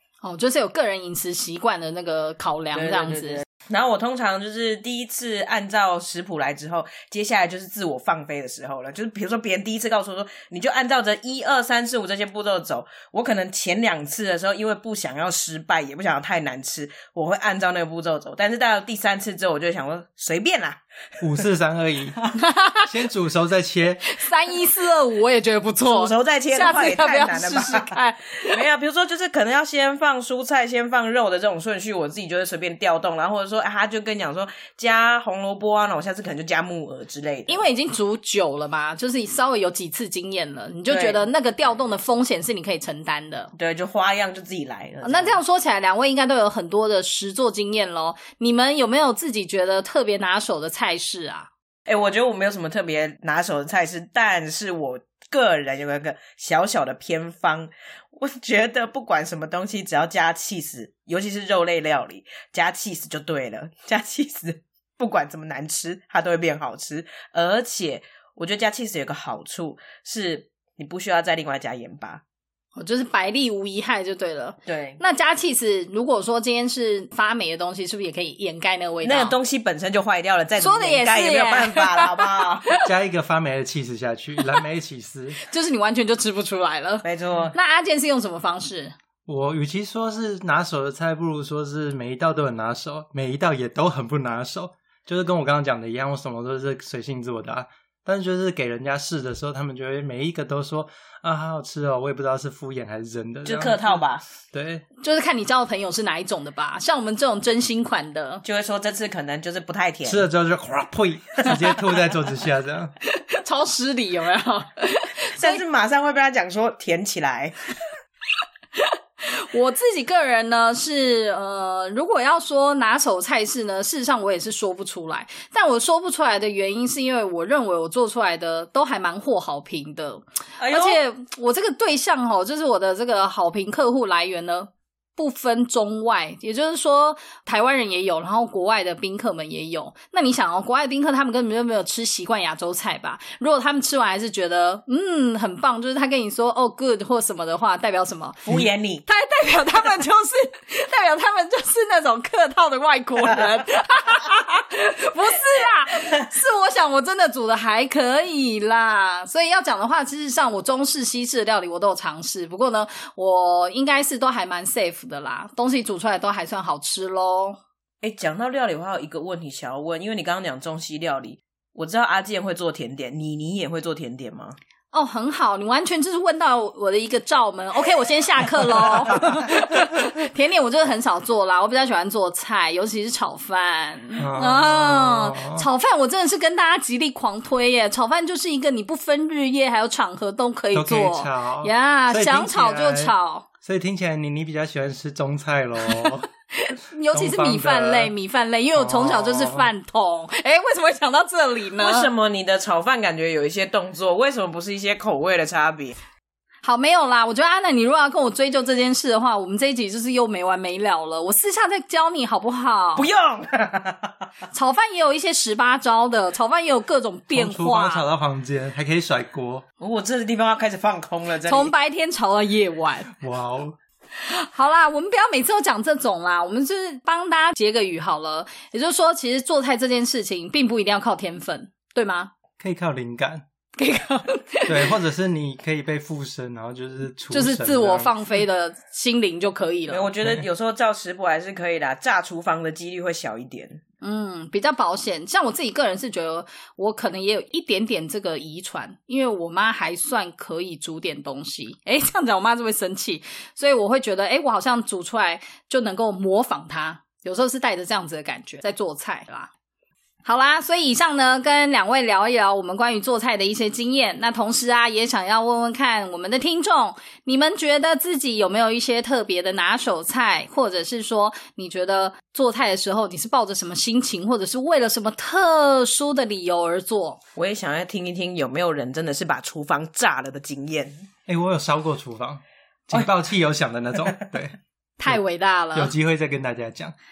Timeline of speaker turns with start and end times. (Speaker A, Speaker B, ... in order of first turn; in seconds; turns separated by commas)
Speaker A: 0.2-3.4, Speaker B: 2.7-20.8, Speaker C: 21.2-22.2, Speaker A: 22.4-22.9, Speaker C: 22.8-24.0, Speaker A: 24.1-28.6, Speaker B: 25.8-27.9, Speaker B: 28.4-37.6, Speaker A: 37.5-43.5, Speaker B: 40.9-41.2, Speaker B: 43.5-45.4, Speaker A: 45.0-51.5, Speaker B: 51.9-72.2, Speaker A: 72.8-79.3, Speaker B: 74.7-75.0, Speaker B: 79.0-82.7, Speaker A: 80.6-82.9, Speaker C: 82.8-85.4, Speaker A: 85.5-88.9, Speaker B: 87.0-87.5, Speaker C: 89.2-104.8, Speaker B: 103.4-104.2, Speaker A: 105.0-108.4, Speaker B: 108.4-110.3, Speaker C: 110.0-112.9, Speaker A: 113.1-115.6, Speaker B: 115.3-117.5, Speaker A: 118.8-148.4, Speaker B: 130.6-131.0, Speaker B: 148.4-149.1, Speaker A: 149.1-167.6, Speaker B: 168.0-174.6, Speaker A: 174.9-193.5, Speaker C: 184.2-185.7, Speaker C: 190.7-196.2, Speaker A: 195.9-202.1, Speaker C: 197.1-198.1, Speaker C: 198.8-199.7, Speaker B: 201.8-205.9, Speaker A: 206.6-213.1, Speaker B: 212.9-214.1, Speaker A: 214.5-218.0, Speaker C: 217.3-219.6, Speaker B: 219.8-221.7, Speaker A: 221.4-223.1, Speaker C: 223.2-223.8, Speaker A: 224.2-232.3, Speaker C: 232.6-233.4, Speaker A: 233.8-234.9, Speaker C: 234.7-238.4, Speaker A: 237.3-240.1, Speaker B: 239.9-243.8, Speaker A: 244.0-259.5, Speaker A: 260.2-277.2, Speaker B: 277.4-280.9, Speaker C: 281.3-284.5, Speaker A: 285.0-285.9, Speaker C: 285.7-286.9